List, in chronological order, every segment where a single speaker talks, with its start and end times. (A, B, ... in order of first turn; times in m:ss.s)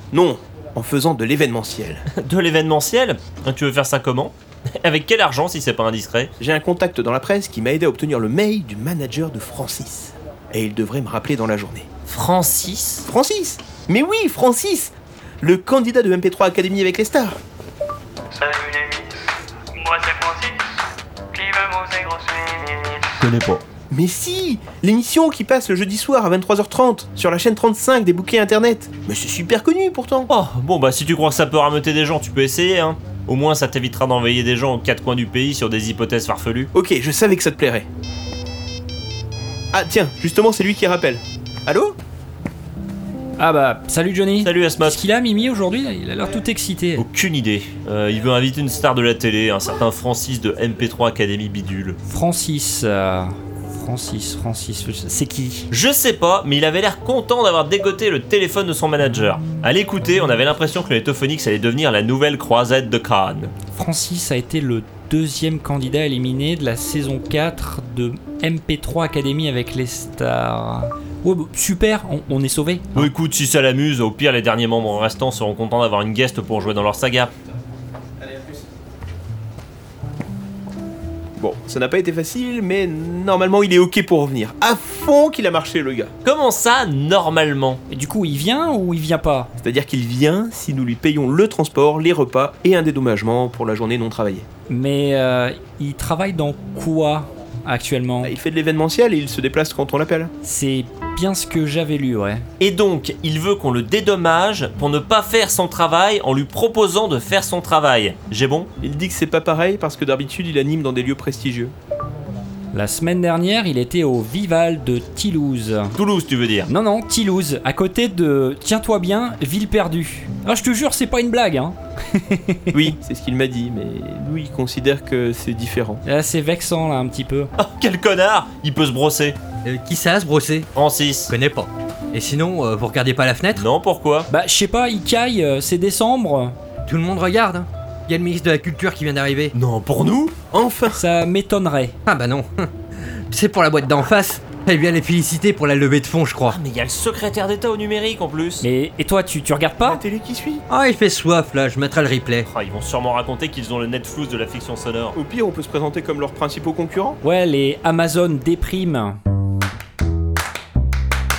0:00.1-0:02.0 A
0:02.1-0:06.3 B
0:06.4-0:11.8 A
0:12.1-0:13.0 B
0:13.1-0:17.4 A
0:18.4-0:19.1 C
0:19.7-0:20.6 C
0:21.3-0:23.0 C
0:23.2-0:23.6 B
0:23.9-0:30.3 A
0:30.3-0:36.7 B
0:36.7-0:37.8 A
0:39.7-0:42.0 A
0:43.4-0:47.0 D
0:44.4-0:45.0 B
0:47.0-0:52.0 B
0:52.0-0:55.7 D
0:55.7-1:03.5 B
1:03.7-1:13.1 D
1:12.9-1:17.3 B
1:21.4-1:26.1 A
1:26.2-1:27.8 B
1:27.9-1:29.5 D
1:29.6-1:34.4 A
1:34.7-1:38.3 D
1:38.2-1:40.3 A
1:40.4-1:42.4 D
1:42.6-1:48.7 B
1:48.8-1:51.7 A
1:52.7-1:55.9 D
1:55.9-1:56.7 B
1:56.7-2:02.9 D
2:02.7-2:06.0 A
2:06.0-2:07.5 D
2:07.6-2:09.4 B
2:09.6-2:10.7 E
2:10.7-2:11.3 B
2:11.3-2:13.6 E
2:13.6-2:14.3 B
2:14.3-2:16.5 D
2:16.8-2:19.5 E
2:19.5-2:20.4 B
2:20.5-2:21.0 A
2:20.9-2:22.0 D
2:22.0-2:26.6 E
2:26.5-2:28.7 B
2:28.6-2:30.0 D
2:29.8-2:30.6 A
2:30.7-2:32.5 E
2:32.4-2:35.2 B
2:35.1-2:37.2 A
2:37.2-2:39.2 D